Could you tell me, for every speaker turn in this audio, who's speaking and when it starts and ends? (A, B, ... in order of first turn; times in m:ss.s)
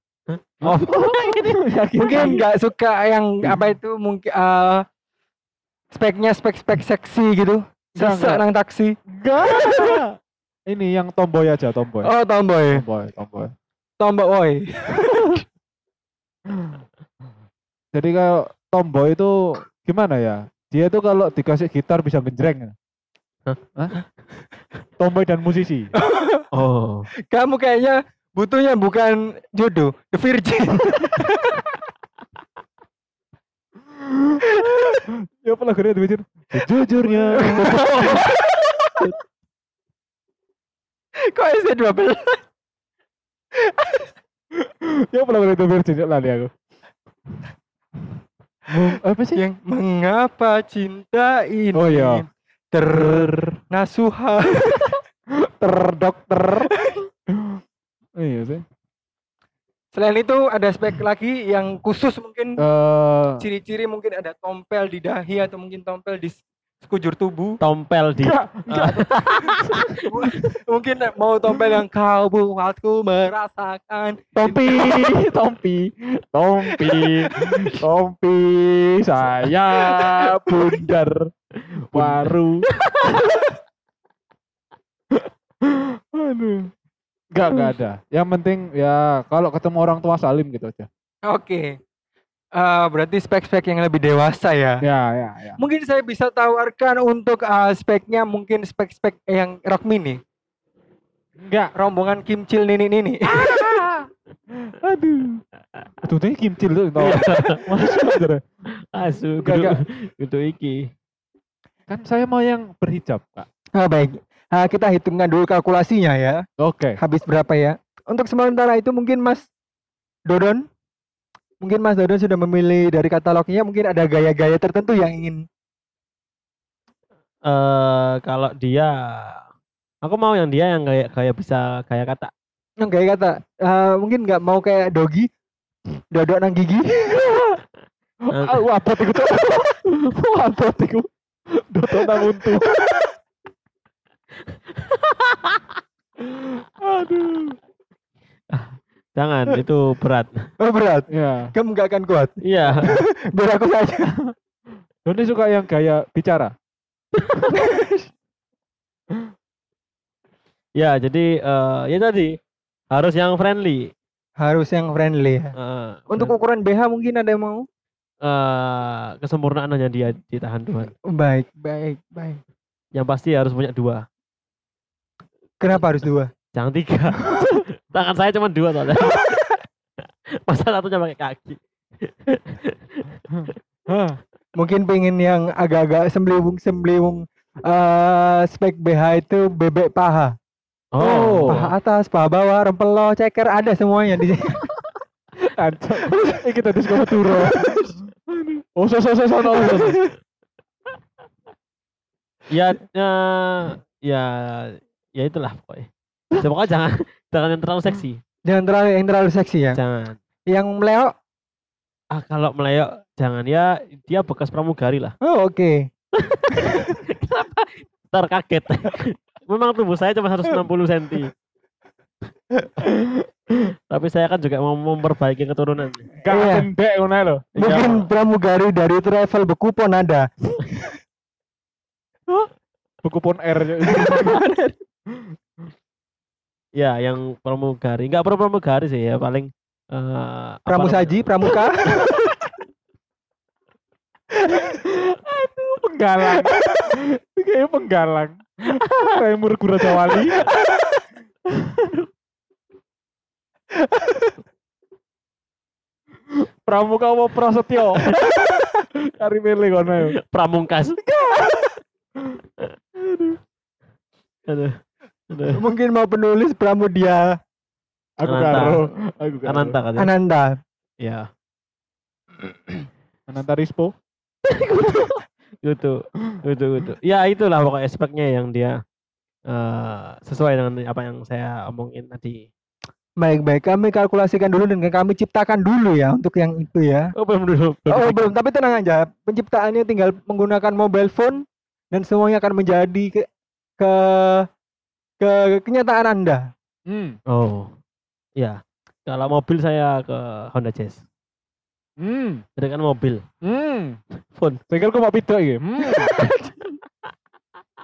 0:00.3-0:02.4 A
0:00.6-0:02.4 B
0:02.0-0:04.8 C
0:05.9-0:09.0 C
0:08.0-0:08.4 B
0:09.2-0:10.2 B
0:09.6-0:09.9 C
0:10.7-0:12.1 B
0:12.0-0:12.8 C
0:12.7-0:13.5 B
0:14.0-0:15.4 C
0:17.9-0:22.7 B
0:25.0-0:25.9 B
0:26.0-0:26.4 C
0:26.5-0:27.1 A
0:27.3-0:31.6 C
0:34.5-0:35.0 C
0:35.0-0:38.2 B
0:37.3-0:38.6 C
0:41.3-0:42.4 C
0:43.6-0:44.1 C
0:44.6-0:46.5 B
0:48.7-0:49.4 B
0:49.3-0:54.9 C
0:51.7-0:52.2 B
0:52.9-0:53.6 B
0:55.4-0:56.7 B
0:56.7-0:57.0 C
0:58.2-0:58.6 B
0:59.9-1:02.6 C
1:02.6-1:03.4 B
1:03.4-1:07.6 C
1:07.6-1:09.7 A
1:08.2-1:10.4 B
1:10.1-1:14.9 C
1:14.4-1:21.3 B
1:19.8-1:20.6 C
1:21.9-1:23.2 A
1:21.9-1:22.6 B
1:25.1-1:26.7 B
1:27.3-1:30.9 B
1:31.3-1:31.7 C
1:32.6-1:34.8 C
1:34.8-1:35.6 B
1:35.6-1:40.2 C
1:41.4-1:41.7 B
1:41.7-1:43.6 C
1:43.3-1:44.1 B
1:44.6-1:45.4 B
1:46.0-1:48.4 B
1:47.0-1:48.0 A
1:48.9-1:50.9 A
1:49.4-1:49.8 B
1:51.9-1:53.4 B
1:53.8-1:56.4 C
1:56.6-1:57.0 B
1:57.0-1:59.5 C
2:00.3-2:00.6 C
2:01.6-2:05.4 C
2:07.4-2:09.4 A
2:10.0-2:12.3 A
2:12.8-2:15.3 C
2:16.1-2:17.2 C
2:17.1-2:17.6 B
2:18.3-2:22.8 B
2:18.3-2:18.6 A
2:24.8-2:25.6 A
2:26.6-2:27.6 B
2:28.5-2:30.5 A
2:30.6-2:32.4 C
2:31.1-2:31.5 B
2:32.4-2:32.9 A
2:32.9-2:34.1 C
2:35.0-2:36.5 B
2:37.5-2:38.1 C
2:40.8-2:42.3 A
2:42.9-2:43.9 A
2:44.4-2:45.5 C
2:45.6-2:46.4 A
2:46.1-2:47.6 C
2:48.2-2:50.9 A
2:51.1-2:52.4 C
2:52.9-2:54.0 A
2:55.6-2:56.3 C
2:56.5-2:59.4 A
3:00.5-3:03.0 A
3:03.3-3:04.2 B
3:04.6-3:10.3 C
3:10.9-3:11.5 A
3:11.0-3:11.7 B
3:11.4-3:14.6 C
3:15.4-3:20.0 B
3:16.1-3:17.9 C
3:19.6-3:20.1 C
3:22.5-3:28.2 A
3:28.4-3:29.8 C
3:29.7-3:30.2 A
3:30.5-3:31.1 C
3:32.1-3:35.1 A
3:35.2-3:35.8 C
3:36.2-3:41.3 A
3:43.9-3:46.1 A
3:46.2-3:48.1 B
3:46.3-3:46.7 C
3:47.6-3:50.3 C
3:53.0-3:54.4 B
3:53.9-3:54.7 C
3:56.8-4:01.3 A
4:00.7-4:01.8 C
4:04.5-4:10.5 B
4:11.5-4:12.0 B
4:16.6-4:18.5 B
4:19.1-4:20.1 B
4:20.0-4:21.0 A
4:23.1-4:23.4 B
4:24.5-4:24.8 A
4:25.3-4:25.6 A
4:25.6-4:27.2 C
4:28.2-4:29.8 B
4:28.2-4:28.8 A
4:29.4-4:30.1 A
4:30.0-4:30.5 C
4:31.0-4:31.3 A
4:33.3-4:33.9 B
4:34.5-4:38.8 A
4:39.5-4:42.5 A
4:43.2-4:47.1 C
4:47.2-4:48.3 A
4:47.9-4:53.2 C
4:53.8-4:54.5 C
4:55.2-4:56.5 C
4:56.9-4:57.2 B
4:57.3-4:57.7 A
4:58.4-5:01.0 A
5:02.0-5:02.4 B
5:02.6-5:03.2 A
5:03.4-5:04.0 B
5:04.3-5:04.6 A
5:04.7-5:06.1 B
5:06.1-5:06.4 C